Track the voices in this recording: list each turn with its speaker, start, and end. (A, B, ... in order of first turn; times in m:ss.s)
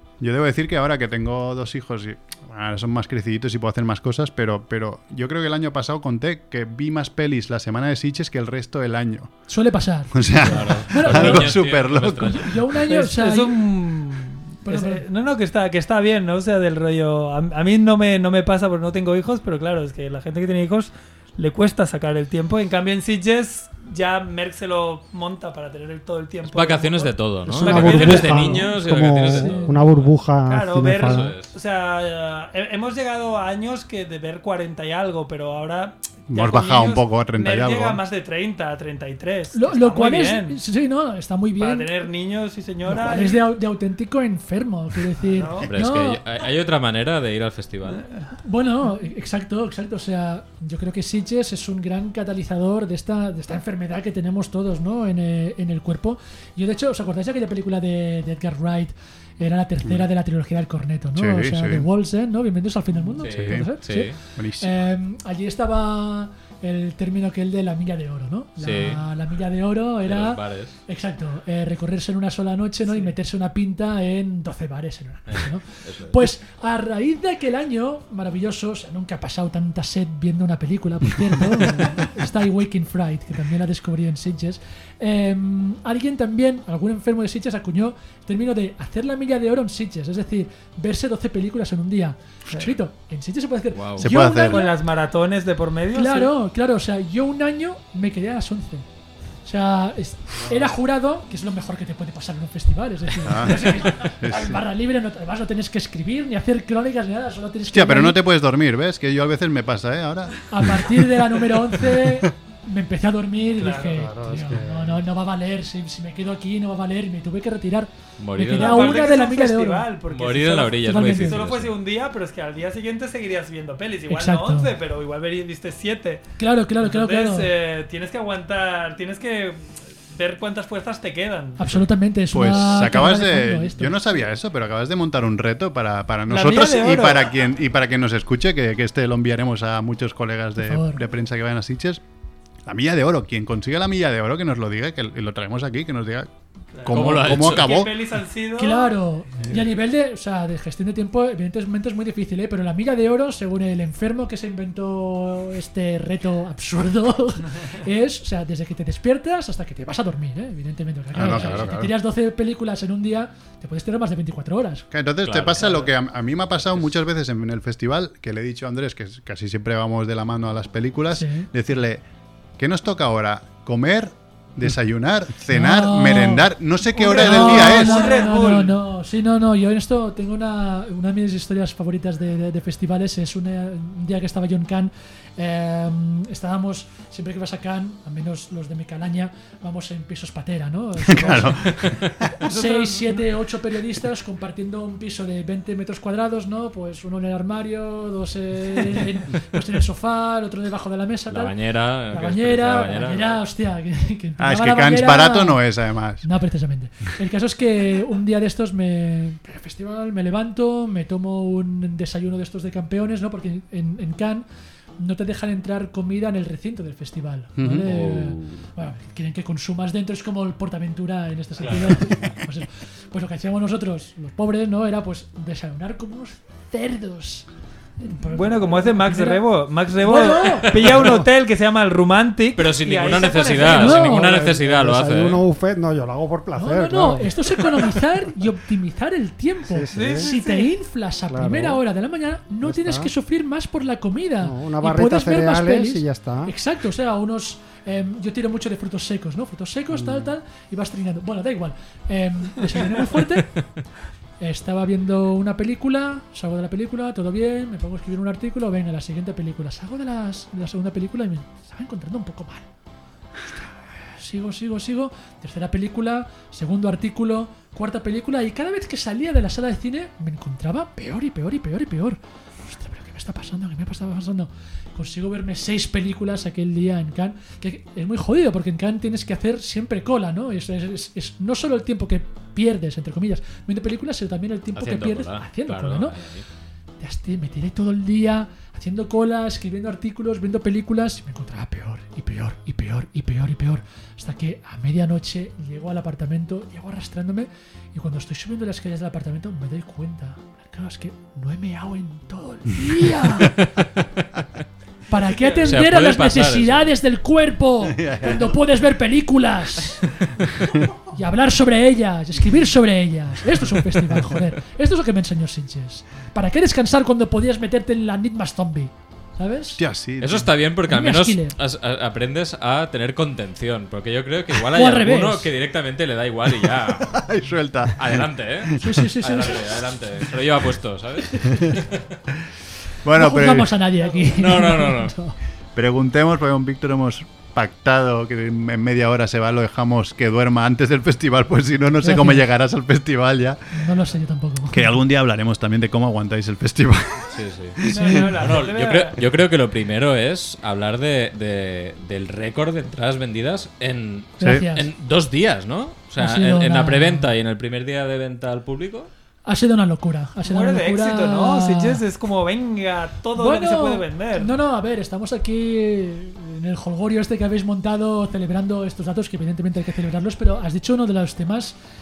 0:00.2-0:09.3 A
0:09.5-0:13.7 B
0:10.1-0:12.6 A
0:10.4-0:12.6 C
0:12.9-0:28.6 D
0:14.6-0:15.0 B
0:26.4-0:30.1 C
0:27.4-0:31.3 E
0:29.4-0:29.7 D
0:30.4-0:40.6 D
0:30.9-0:31.5 C
0:36.3-0:38.0 A
0:39.5-0:42.0 B
0:41.6-0:43.4 D
0:42.9-0:46.2 B
0:45.2-0:45.7 D
0:45.7-0:48.0 C
0:47.8-0:48.2 D
0:48.4-1:34.8 B
1:01.2-1:01.8 A
1:03.2-1:04.2 C
1:03.2-1:03.7 A
1:04.3-1:04.8 A
1:08.6-1:09.0 C
1:10.0-1:10.8 C
1:15.3-1:16.2 C
1:33.7-1:34.0 C
1:34.0-1:34.7 A
1:34.4-1:36.3 D
1:35.9-1:38.9 B
1:39.4-1:48.2 B
1:43.2-1:44.6 A
1:47.7-1:50.9 A
1:50.5-1:59.9 B
1:51.8-1:52.2 A
1:53.6-1:54.1 D
1:53.9-1:55.0 E
1:58.2-1:59.1 C
1:58.5-2:06.2 D
2:00.1-2:01.7 C
2:00.8-2:01.4 B
2:04.1-2:04.7 B
2:06.4-2:07.5 B
2:06.8-2:11.7 D
2:11.6-2:14.2 B
2:12.3-2:22.0 A
2:16.3-2:17.3 D
2:20.6-2:21.0 B
2:22.6-2:27.9 A
2:26.7-2:28.9 D
2:26.9-2:27.8 C
2:28.6-2:44.9 B
2:41.1-2:41.9 A
2:41.2-2:41.7 C
2:44.9-2:52.0 A
2:45.2-2:45.7 C
2:51.1-2:51.5 B
2:52.6-2:58.2 A
2:55.5-3:21.5 B
2:56.9-2:58.8 D
3:11.0-3:12.3 A
3:12.5-3:13.2 D
3:21.3-3:23.4 C
3:22.1-3:25.6 B
3:24.4-3:26.3 A
3:26.2-3:34.4 B
3:35.0-3:47.5 B
3:37.6-3:37.9 A
3:37.9-3:38.6 C
3:41.6-3:41.9 C
3:48.0-3:51.1 B
3:48.2-3:54.0 D
3:50.6-3:51.1 C
3:52.6-3:55.4 C
3:53.6-3:54.4 B
3:54.0-3:57.4 E
3:56.5-4:13.6 B
3:59.6-4:00.3 E
3:59.9-4:00.7 D
4:01.3-4:01.8 E
4:02.6-4:03.1 E
4:04.4-4:06.5 E
4:09.9-4:10.3 E
4:14.4-4:22.6 B
4:24.1-4:46.2 B
4:44.7-4:46.4 C
4:47.0-5:03.6 B
5:03.6-5:03.8 C
5:05.1-5:10.0 B
5:05.3-5:05.7 D
5:05.7-5:06.9 C
5:07.9-5:08.5 A
5:10.5-5:10.9 A
5:11.1-5:19.8 B
5:19.8-5:20.5 A
5:20.2-5:27.2 C
5:20.9-5:21.6 B
5:24.7-5:25.5 B
5:27.1-5:29.0 A
5:27.9-5:32.1 C
5:28.8-5:29.8 B
5:31.3-5:31.6 B
5:31.5-5:31.8 A
5:33.0-5:33.8 A
5:33.1-5:35.4 B
5:34.3-5:35.1 C
5:35.8-5:43.7 A
5:42.0-5:42.4 B
5:43.7-5:45.0 B
5:44.7-5:48.0 A
5:47.3-5:47.8 C
5:47.9-5:49.2 D
5:47.9-5:48.3 B
5:48.4-5:59.1 C
5:54.4-5:54.9 B
5:54.4-5:54.7 A
5:56.2-5:57.3 B
5:59.4-6:02.0 B
6:00.4-6:04.5 D
6:03.4-6:11.8 B